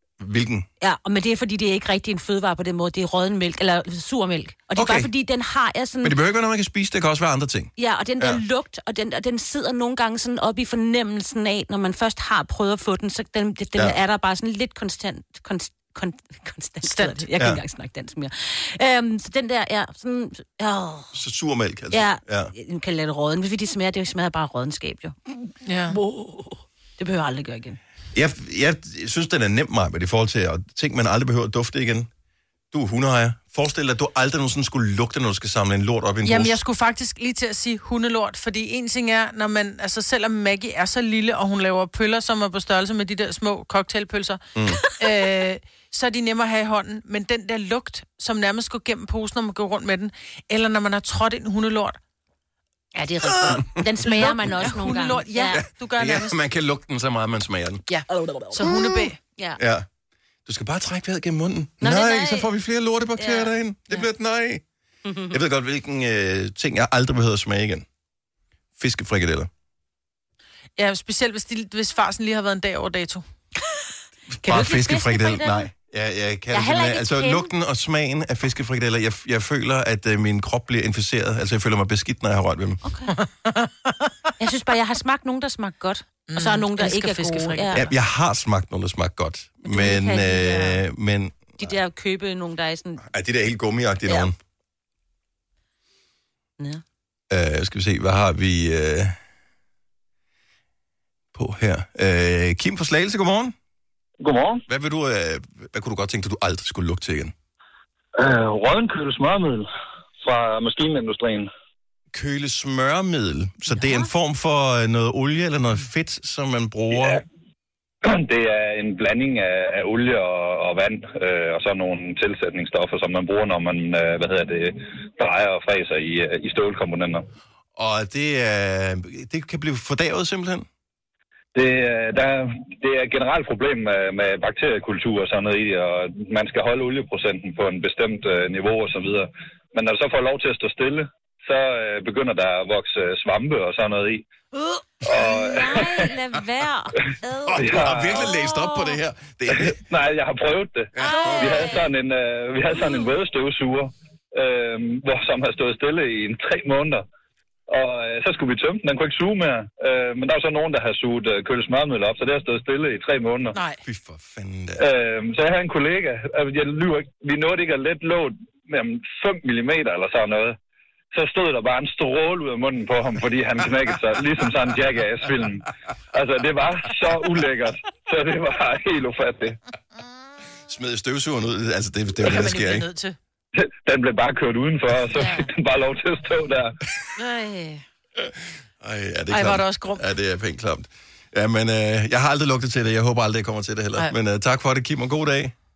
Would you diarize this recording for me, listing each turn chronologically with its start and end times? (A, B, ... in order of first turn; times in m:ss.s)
0:00.2-0:00.7 A
0:00.8-0:06.2 B
0:04.8-0:05.1 A
0:06.0-0:08.4 A
0:07.8-0:21.1 B
0:13.8-0:14.0 A
0:16.8-0:17.3 C
0:17.4-0:17.6 A
0:21.1-0:22.5 A
0:21.9-0:25.2 B
0:25.7-0:26.0 C
0:25.9-0:27.8 B
0:28.2-0:32.1 A
0:32.7-0:36.6 A
0:36.2-0:44.4 C
0:44.6-0:44.8 A
0:44.9-0:52.0 C
0:53.0-0:55.6 B
0:53.4-0:53.8 A
0:54.0-0:56.3 C
0:55.5-0:57.8 A
0:57.9-0:59.2 C
0:58.1-0:58.7 B
0:58.7-0:59.0 A
0:59.3-0:59.6 B
0:59.6-0:59.9 A
1:00.5-1:04.6 A
1:01.8-1:02.5 B
1:03.2-1:03.5 B
1:05.0-1:05.4 B
1:05.3-1:07.8 A
1:08.8-1:09.5 A
1:10.8-1:13.2 C
1:14.3-1:22.8 A
1:14.4-1:15.7 B
1:16.5-1:17.5 B
1:22.8-1:23.1 B
1:23.1-1:24.1 C
1:24.4-1:27.9 B
1:26.3-1:27.9 C
1:27.7-1:31.7 A
1:29.6-1:30.8 B
1:31.6-1:33.0 B
1:33.0-1:34.4 A
1:34.1-1:34.3 B
1:37.3-1:39.2 A
1:41.3-1:43.6 A
1:44.2-1:44.6 D
1:44.7-1:47.3 A
1:48.2-1:49.7 D
1:50.2-1:51.5 D
1:52.1-1:57.2 A
1:53.8-1:54.1 B
1:56.9-1:57.2 D
1:58.0-2:07.2 D
2:07.8-2:10.7 A
2:11.6-2:24.3 D
2:25.0-2:26.1 D
2:25.1-2:29.0 B
2:27.5-2:29.8 A
2:27.6-2:28.3 D
2:29.6-2:37.0 D
2:31.0-2:31.8 A
2:31.0-2:31.9 B
2:32.7-2:33.1 B
2:37.7-2:43.6 D
2:43.5-2:43.8 C
2:43.8-2:44.8 A
2:44.8-2:50.6 D
2:51.1-2:59.6 D
3:00.7-3:02.9 A
3:02.2-3:03.2 C
3:03.6-3:06.8 D
3:05.1-3:05.5 B
3:07.2-3:07.8 B
3:08.2-3:15.5 A
3:09.3-3:10.0 C